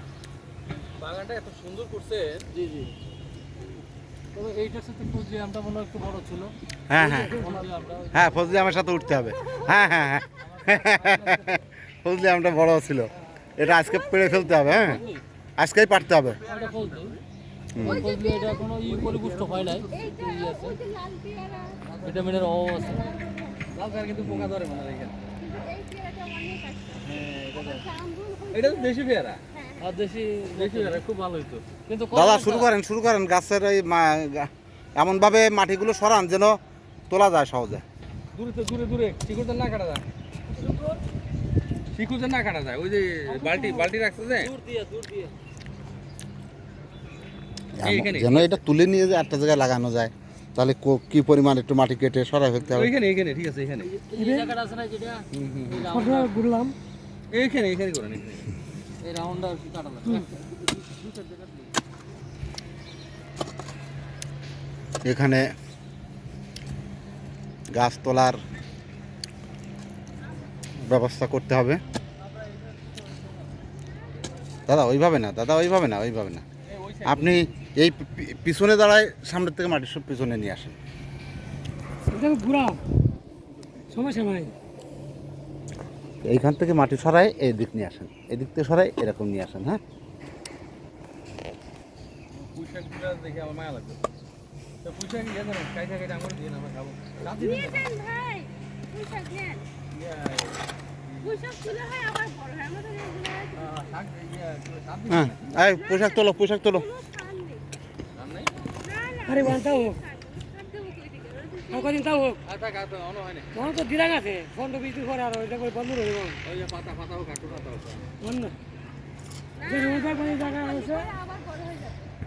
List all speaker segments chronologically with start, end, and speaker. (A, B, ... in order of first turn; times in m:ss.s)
0:01.0-0:02.5 A
0:02.5-0:02.9 B
0:04.3-0:06.5 B
0:06.9-0:07.4 C
0:07.0-0:07.4 D
0:07.3-0:08.3 B
0:08.1-0:15.0 C
0:10.4-0:11.6 B
0:13.7-0:15.0 E
0:14.8-0:15.2 B
0:15.6-0:16.4 C
0:16.5-0:17.2 B
0:16.5-0:17.2 A
0:17.8-0:18.1 C
0:17.8-0:18.6 E
0:17.8-0:20.8 B
0:18.9-0:19.8 A
0:19.9-0:21.8 E
0:21.9-0:22.4 A
0:22.0-0:23.2 B
0:22.9-0:23.6 E
0:23.7-0:25.2 A
0:24.2-0:24.5 C
0:25.4-0:28.9 E
0:27.0-0:27.9 A
0:28.5-0:29.4 A
0:29.5-0:29.8 E
0:29.8-0:31.0 B
0:30.5-0:31.7 A
0:31.9-0:32.7 B
0:32.1-0:36.6 C
0:37.1-0:37.8 C
0:38.3-0:40.0 A
0:41.9-0:44.5 A
0:43.4-0:43.8 B
0:44.4-0:45.3 B
0:47.8-0:52.9 C
0:47.8-0:48.6 A
0:52.7-0:53.9 A
0:53.8-0:56.3 B
0:54.2-0:54.5 D
0:55.9-0:56.8 D
0:57.3-0:58.5 A
0:59.0-1:01.5 B
1:05.0-1:05.5 C
1:07.7-1:08.4 C
1:10.8-1:11.8 C
1:14.7-1:16.4 C
1:16.7-1:17.5 A
1:17.0-1:20.8 C
1:22.1-1:22.8 D
1:23.6-1:24.0 A
1:23.9-1:24.5 D
1:26.2-1:29.8 C
1:32.4-1:34.0 A
1:34.8-1:37.9 A
1:37.4-1:39.7 E
1:39.9-1:41.5 A
1:41.2-1:43.8 E
1:43.6-1:45.6 A
1:45.1-1:46.9 C
1:45.7-1:47.6 E
1:48.2-1:48.5 A
1:48.8-1:51.9 E
1:49.2-1:50.0 D
1:51.7-1:52.4 D
1:52.4-1:53.5 A
1:53.5-1:56.4 D
1:56.4-1:58.1 A
1:58.2-1:58.6 D
1:59.6-2:02.0 E
1:59.7-2:01.2 D